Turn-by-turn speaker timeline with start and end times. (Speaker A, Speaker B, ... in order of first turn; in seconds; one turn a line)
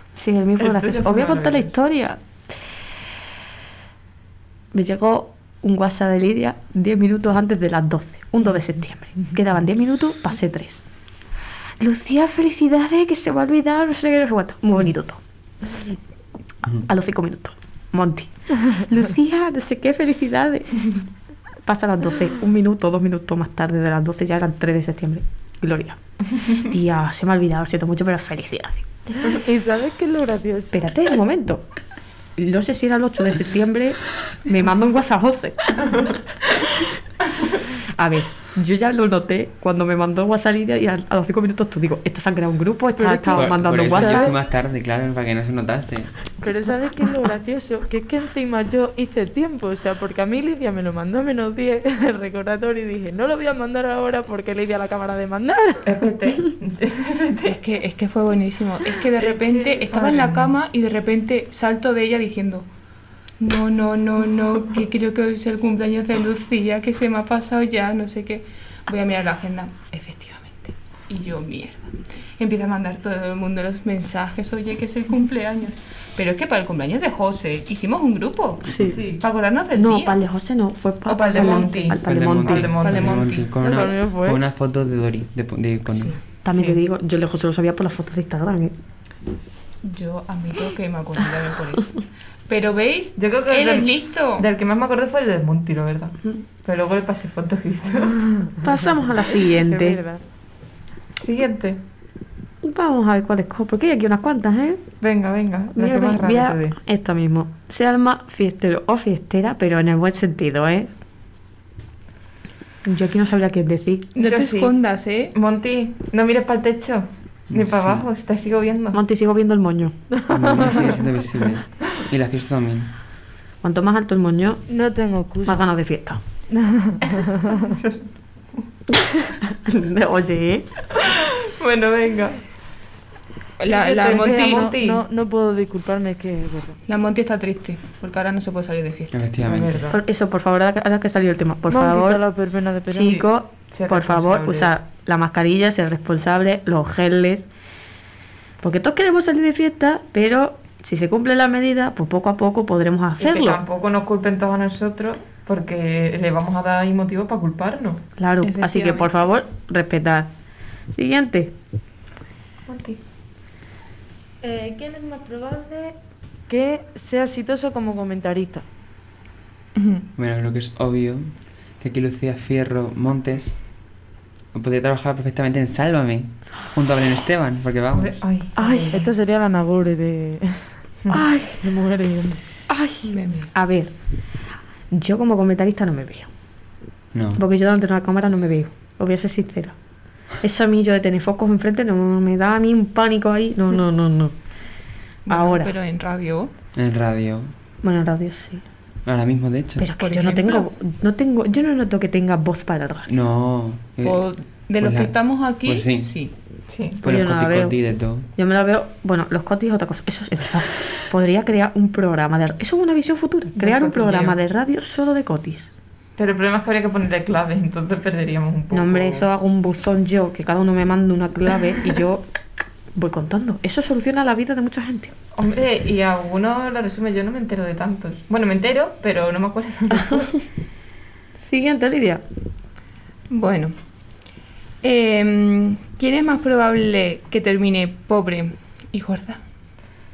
Speaker A: 0.1-2.2
Speaker B: 0.6-1.7
Speaker A: 4.7-10.9
Speaker A: 11.8-15.2
Speaker A: 16.9-20.9
Speaker A: 21.6-28.9
Speaker C: 29.2-30.8
Speaker A: 30.7-31.6
Speaker A: 32.4-36.0
Speaker A: 37.9-44.3
Speaker C: 43.0-44.3
Speaker D: 43.3-46.1
Speaker C: 46.4-56.0
Speaker B: 55.8-57.6
Speaker E: 57.4-62.7
Speaker B: 59.1-60.5
Speaker E: 63.4-80.2
Speaker A: 78.6-79.0
Speaker B: 78.8-79.2
Speaker A: 79.8-82.7
Speaker B: 81.0-83.4
Speaker E: 81.3-81.9
Speaker D: 82.0-86.2
Speaker E: 82.7-83.8
Speaker C: 83.6-84.4
Speaker E: 85.9-86.2
Speaker A: 86.4-88.8
Speaker B: 86.5-86.8
Speaker E: 89.8-94.5
Speaker B: 93.2-98.3
Speaker A: 98.6-100.0
Speaker C: 99.7-100.2
Speaker B: 101.1-101.8
Speaker A: 102.6-104.8
Speaker B: 105.0-106.8
Speaker A: 105.8-110.9
Speaker A: 112.8-114.1
Speaker E: 114.1-115.3
Speaker B: 114.2-114.8
Speaker B: 115.3-119.0
Speaker D: 117.5-118.0
Speaker A: 118.9-120.0
Speaker C: 120.3-120.9
Speaker D: 120.3-122.9
Speaker A: 123.6-124.6
Speaker C: 124.7-125.7
Speaker A: 125.4-126.2
Speaker C: 126.5-127.7
Speaker B: 127.6-128.1
Speaker A: 129.1-130.7
Speaker B: 131.0-132.4
Speaker E: 133.6-134.8
Speaker B: 133.6-135.0
Speaker C: 134.1-136.8
Speaker E: 136.9-139.2
Speaker D: 139.1-139.9
Speaker B: 139.4-140.0
Speaker A: 139.9-142.2
Speaker C: 141.7-143.2
Speaker A: 142.9-147.5
Speaker B: 143.7-144.8
Speaker A: 148.6-153.6
Speaker B: 153.2-158.0
Speaker A: 158.2-160.3
Speaker E: 158.4-159.1
Speaker A: 160.9-161.5
Speaker B: 162.7-163.0
Speaker C: 164.4-165.9
Speaker C: 166.5-168.6
Speaker E: 169.8-170.0
Speaker D: 170.2-173.6
Speaker D: 174.5-178.2
Speaker B: 177.9-179.1
Speaker A: 178.6-179.0
Speaker C: 178.9-180.7
Speaker A: 181.1-181.6
Speaker C: 181.6-182.4
Speaker A: 182.7-183.9
Speaker E: 183.0-183.5
Speaker A: 184.9-186.3
Speaker D: 187.1-187.4
Speaker A: 187.3-189.8
Speaker A: 190.4-194.3
Speaker E: 195.2-196.5
Speaker A: 195.3-195.7
Speaker D: 196.8-197.5
Speaker A: 197.8-198.6
Speaker D: 199.1-199.9
Speaker A: 199.8-203.1
Speaker E: 200.0-200.7
Speaker D: 203.1-206.1
Speaker E: 204.0-206.3
Speaker B: 206.7-207.0
Speaker D: 207.0-208.3
Speaker A: 207.0-207.8
Speaker A: 208.3-215.7
Speaker B: 213.6-214.4
Speaker B: 216.2-219.3
Speaker A: 218.7-222.2
Speaker A: 222.9-225.1
Speaker B: 225.3-230.3
Speaker A: 229.9-230.2
Speaker A: 231.4-232.2
Speaker E: 233.3-233.8
Speaker E: 234.8-239.4